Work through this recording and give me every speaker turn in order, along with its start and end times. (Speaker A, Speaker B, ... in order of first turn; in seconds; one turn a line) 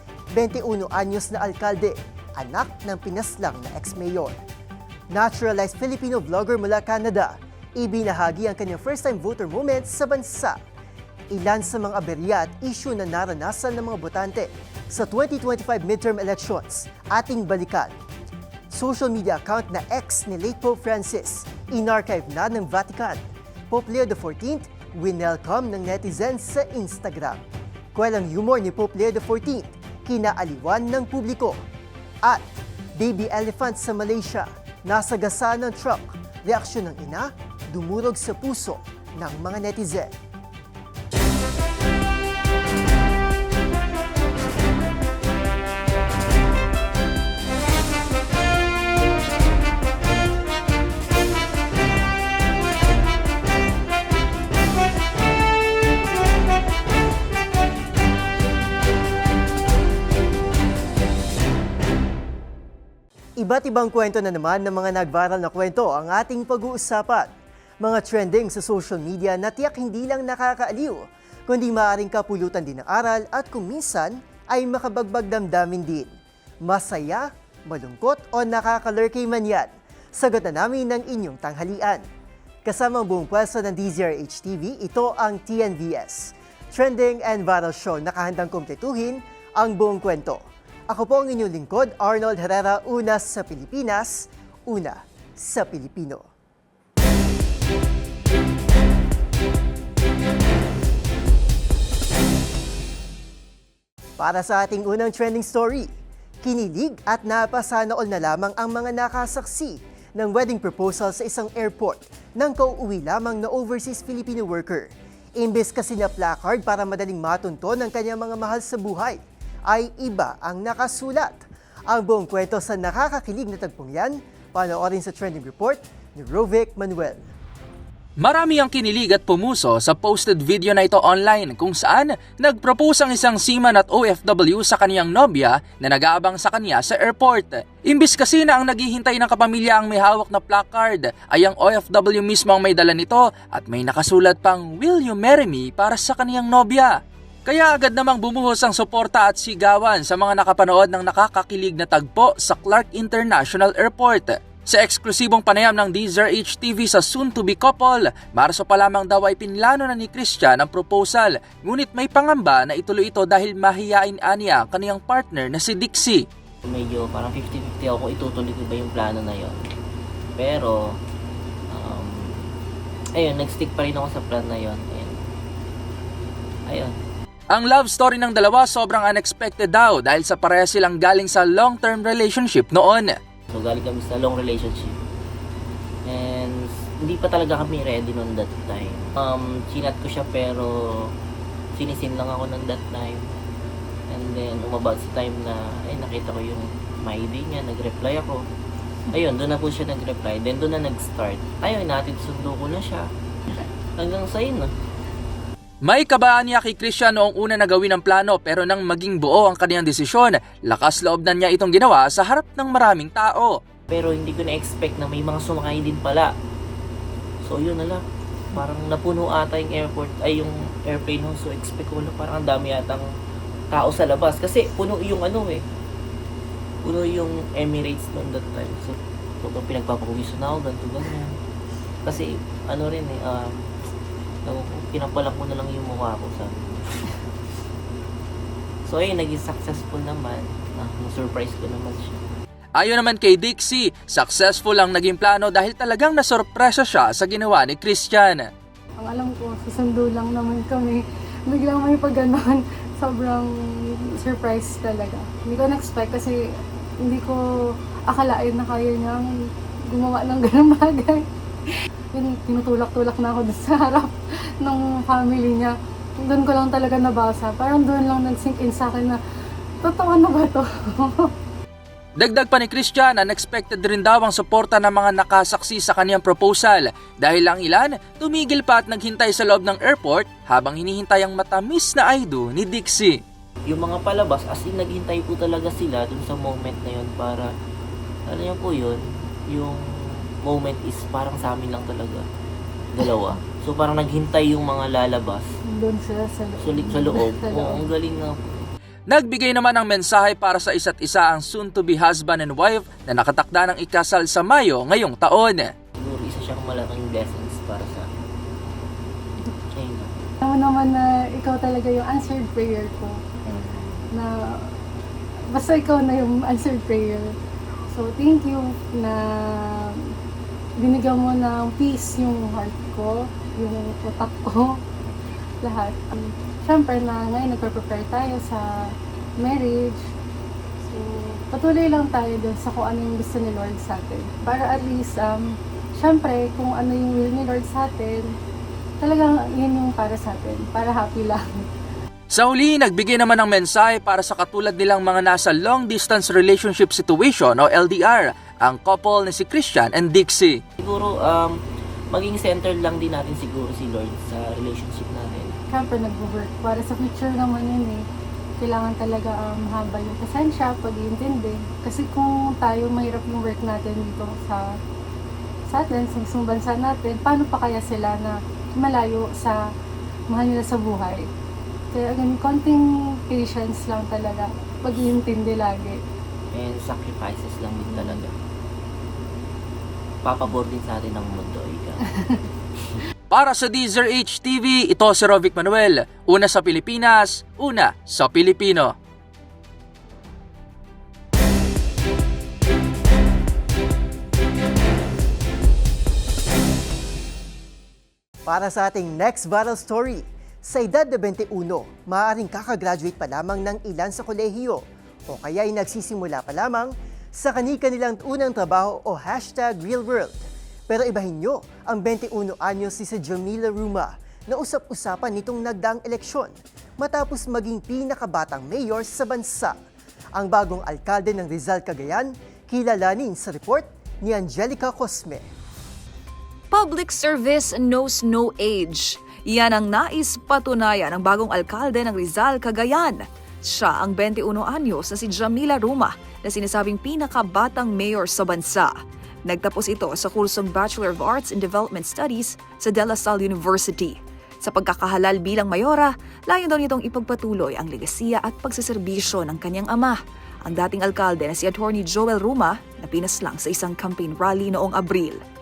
Speaker A: 0.3-4.4
Speaker A: 5.1-10.6
Speaker A: 11.3-17.9
Speaker A: 18.7-27.4
Speaker A: 27.9-31.6
Speaker A: 32.2-40.1
Speaker A: 63.4-76.1
Speaker A: 76.6-82.0
Speaker A: 82.7-96.3
Speaker A: 104.2-105.9
Speaker A: 106.4-127.3
Speaker B: 128.2-146.9
Speaker B: 147.5-166.2
Speaker C: 166.6-169.6
Speaker C: 170.4-171.0
Speaker C: 171.7-172.5
Speaker C: 173.2-175.2
Speaker C: 176.7-177.0
Speaker B: 177.5-183.2
Speaker C: 183.5-185.0
Speaker C: 186.1-191.1
Speaker C: 191.8-193.2
Speaker C: 194.1-198.4
Speaker C: 199.1-203.1
Speaker C: 204.0-204.7
Speaker B: 205.8-213.6
Speaker C: 213.9-216.3
Speaker C: 217.4-218.0
Speaker C: 218.6-223.1
Speaker C: 223.7-225.6
Speaker C: 226.8-231.3
Speaker C: 232.0-233.6
Speaker C: 234.4-237.2
Speaker C: 238.8-242.2
Speaker B: 242.8-248.5
Speaker D: 249.0-253.5
Speaker D: 254.2-256.3
Speaker D: 257.0-257.4
Speaker D: 258.1-259.3
Speaker D: 259.9-261.2
Speaker D: 262.1-269.2
Speaker D: 269.8-271.3
Speaker B: 272.2-283.2
Speaker C: 283.7-287.5
Speaker C: 288.3-289.8
Speaker C: 290.4-292.2
Speaker C: 292.9-295.5
Speaker D: 295.7-297.9
Speaker C: 296.6-298.6
Speaker B: 299.1-305.7
Speaker C: 305.9-308.0
Speaker C: 309.8-310.3
Speaker D: 310.4-313.1
Speaker C: 313.4-314.1
Speaker D: 315.5-317.3
Speaker D: 317.9-319.2
Speaker D: 320.8-324.7
Speaker D: 325.6-328.6
Speaker D: 329.4-330.0
Speaker D: 330.8-335.4
Speaker D: 336.0-338.3
Speaker D: 339.0-341.4
Speaker B: 342.3-350.6
Speaker C: 350.8-351.6
Speaker C: 352.1-355.5
Speaker D: 355.7-358.0
Speaker D: 358.6-364.6
Speaker D: 365.7-369.6
Speaker D: 370.3-371.3
Speaker D: 371.9-376.0
Speaker C: 376.5-378.3
Speaker C: 380.2-382.0
Speaker B: 383.3-388.9
Speaker A: 398.4-419.8
Speaker A: 420.4-425.4
Speaker E: 426.7-439.0
Speaker E: 439.5-455.4